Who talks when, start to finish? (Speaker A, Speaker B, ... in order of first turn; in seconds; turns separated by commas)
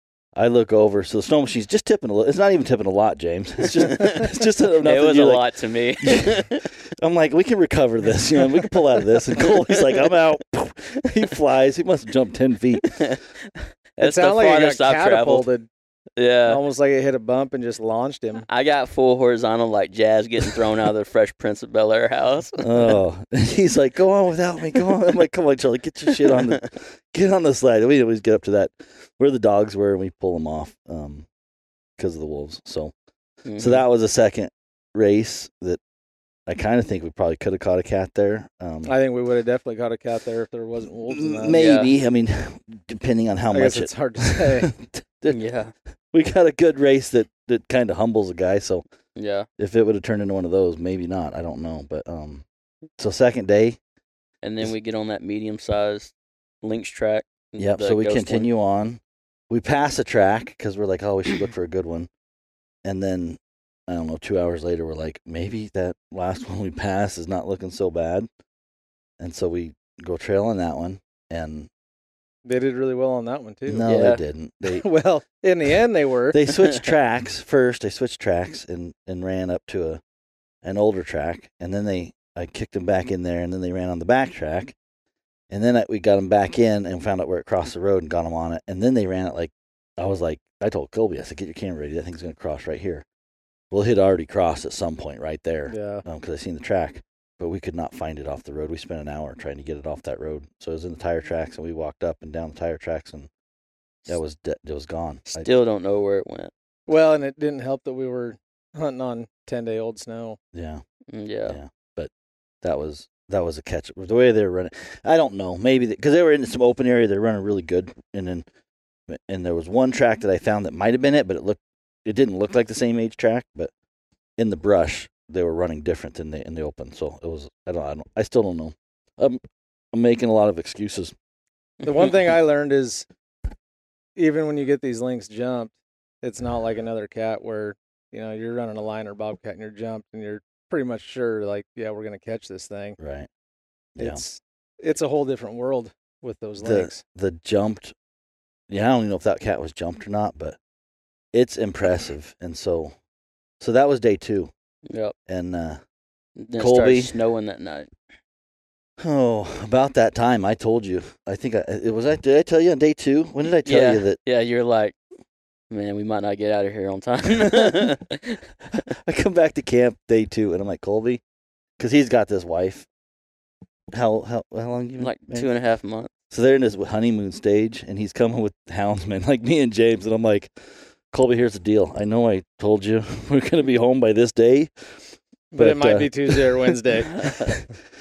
Speaker A: 0.4-5.5, Speaker B: 3.7-6.7, Speaker A: 6.0-13.1, Speaker B: 9.4-10.1, Speaker B: 12.8-15.5, Speaker C: 14.0-15.7, Speaker B: 16.2-16.6, Speaker C: 16.4-18.5, Speaker B: 18.5-23.0, Speaker A: 22.6-31.3, Speaker B: 26.1-26.6, Speaker A: 32.0-32.9, Speaker B: 33.5-33.8, Speaker A: 33.6-35.8, Speaker A: 36.5-38.9, Speaker C: 38.9-41.6, Speaker A: 41.1-45.4, Speaker B: 41.5-41.9, Speaker C: 43.5-44.7, Speaker B: 45.3-45.7, Speaker A: 46.1-48.8, Speaker B: 49.2-49.5, Speaker A: 49.6-52.5, Speaker A: 53.0-53.8, Speaker B: 54.4-58.5, Speaker A: 57.6-62.1, Speaker A: 62.9-68.3, Speaker A: 69.2-71.7, Speaker C: 72.5-73.9, Speaker A: 73.7-74.8, Speaker B: 73.9-74.2, Speaker C: 74.7-76.4, Speaker A: 76.3-80.0, Speaker A: 80.6-84.8, Speaker A: 85.5-93.0, Speaker A: 93.7-103.3, Speaker C: 95.7-96.0, Speaker A: 104.1-105.5, Speaker B: 105.3-106.5, Speaker C: 106.9-110.4, Speaker A: 110.5-110.8, Speaker B: 111.1-111.6, Speaker A: 111.5-112.1, Speaker A: 112.6-118.5, Speaker A: 119.1-123.7, Speaker A: 124.4-129.4, Speaker A: 129.9-131.2, Speaker C: 131.8-133.1, Speaker C: 134.2-143.0, Speaker A: 143.0-143.3, Speaker A: 144.0-144.2, Speaker C: 144.0-147.0, Speaker A: 146.6-147.9, Speaker A: 148.7-150.6, Speaker A: 151.3-152.9, Speaker A: 153.6-154.5, Speaker B: 154.9-155.1, Speaker A: 155.3-155.8, Speaker B: 156.4-157.9, Speaker A: 156.6-157.2, Speaker A: 159.0-164.2, Speaker B: 163.7-165.0, Speaker B: 165.7-168.4, Speaker A: 168.8-171.2, Speaker A: 171.8-172.9, Speaker A: 173.9-175.5, Speaker B: 175.0-176.1, Speaker A: 176.3-180.5, Speaker A: 181.1-187.7, Speaker C: 185.5-187.2, Speaker B: 187.1-187.6